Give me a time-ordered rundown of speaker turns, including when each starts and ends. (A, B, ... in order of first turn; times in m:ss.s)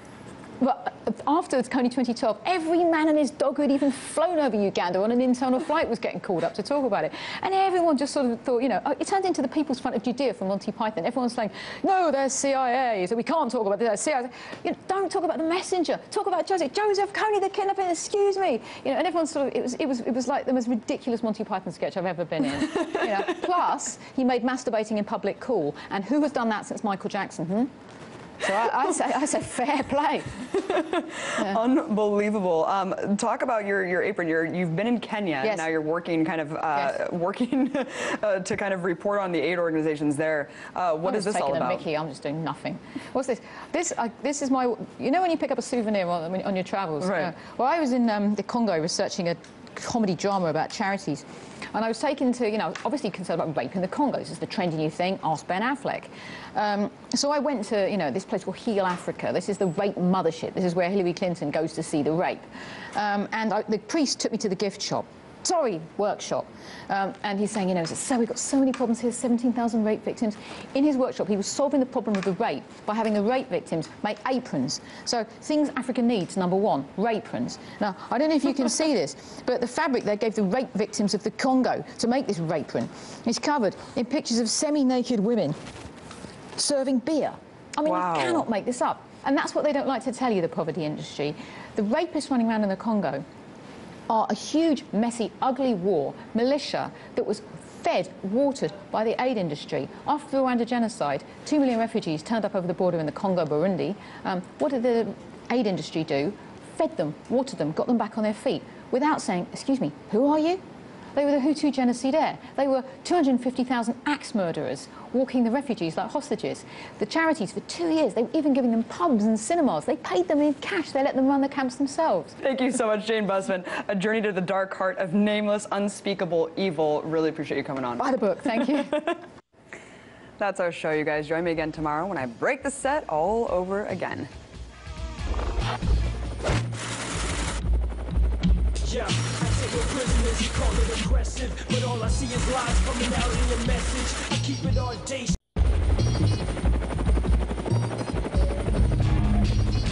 0:00.6-0:27.7 A
0:22.6-0:23.4 B
0:28.4-0:30.3 A
0:30.5-0:41.8 B
0:41.0-1:25.6 A
0:47.0-0:47.3 B
1:26.6-1:33.2 A
1:27.9-1:28.5 B
1:34.1-1:50.6 A
1:51.2-2:02.4 A
2:02.4-2:09.2 B
2:08.0-2:09.0 A
2:10.4-2:14.3 B
2:18.8-2:25.4 C